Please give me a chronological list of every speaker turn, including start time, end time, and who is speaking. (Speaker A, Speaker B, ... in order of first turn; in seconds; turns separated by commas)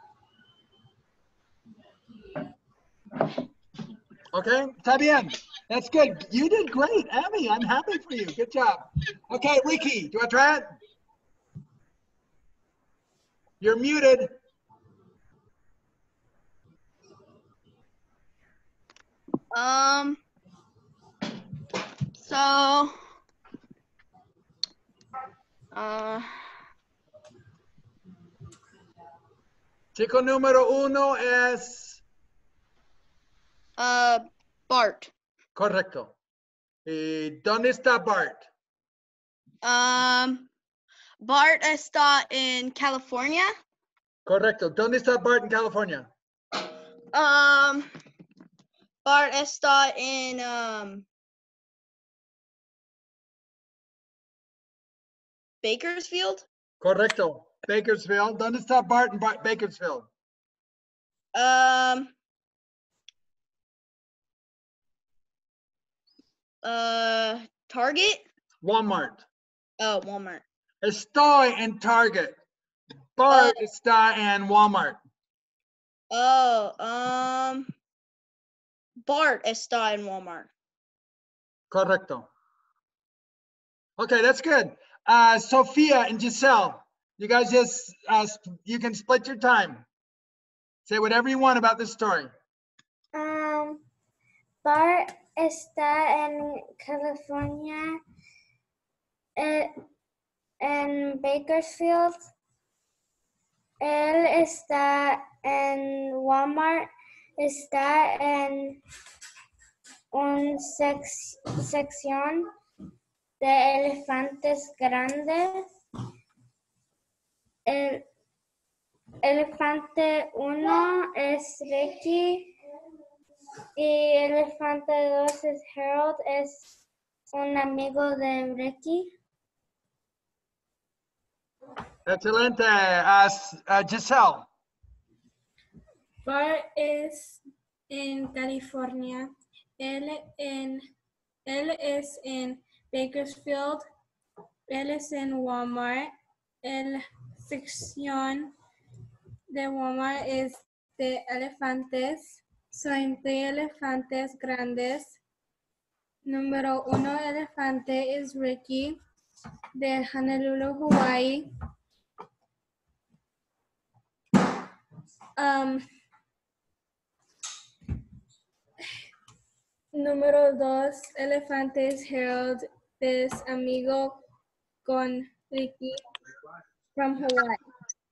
Speaker A: 4.3-10.7, Speaker A: 13.6-14.3, Speaker B: 19.5-20.2, Speaker B: 22.2-22.9, Speaker B: 25.7-26.3, Speaker A: 29.9-32.0, Speaker B: 33.8-35.1, Speaker A: 35.6-36.1, Speaker A: 36.9-38.5, Speaker B: 39.6-40.5, Speaker B: 41.2-43.5, Speaker A: 44.3-46.1, Speaker B: 47.1-47.9, Speaker B: 49.0-51.1, Speaker B: 55.6-56.5, Speaker A: 56.8-60.1, Speaker B: 61.3-62.1, Speaker B: 66.6-68.3, Speaker A: 68.6-69.2, Speaker B: 69.8-70.4, Speaker A: 70.8-72.4, Speaker A: 73.2-75.0, Speaker B: 76.1-77.7, Speaker B: 79.0-80.5, Speaker A: 81.7-82.3, Speaker A: 84.0-89.9, Speaker A: 90.9-92.3, Speaker C: 93.1-93.8, Speaker C: 94.6-98.0, Speaker C: 99.4-99.7, Speaker C: 100.6-102.2, Speaker C: 103.8-108.8, Speaker C: 110.1-112.5, Speaker C: 113.4-115.7, Speaker C: 117.7-118.1, Speaker C: 119.2-122.5, Speaker C: 123.8-126.6, Speaker C: 127.3-129.1, Speaker A: 132.1-134.5, Speaker D: 136.2-140.8, Speaker D: 141.5-143.8, Speaker D: 144.7-146.1, Speaker D: 146.6-148.5, Speaker D: 149.5-155.2, Speaker D: 156.2-159.0, Speaker D: 159.8-161.5, Speaker D: 165.4-165.8, Speaker D: 169.9-174.2, Speaker D: 174.8-176.0, Speaker D: 177.0-177.6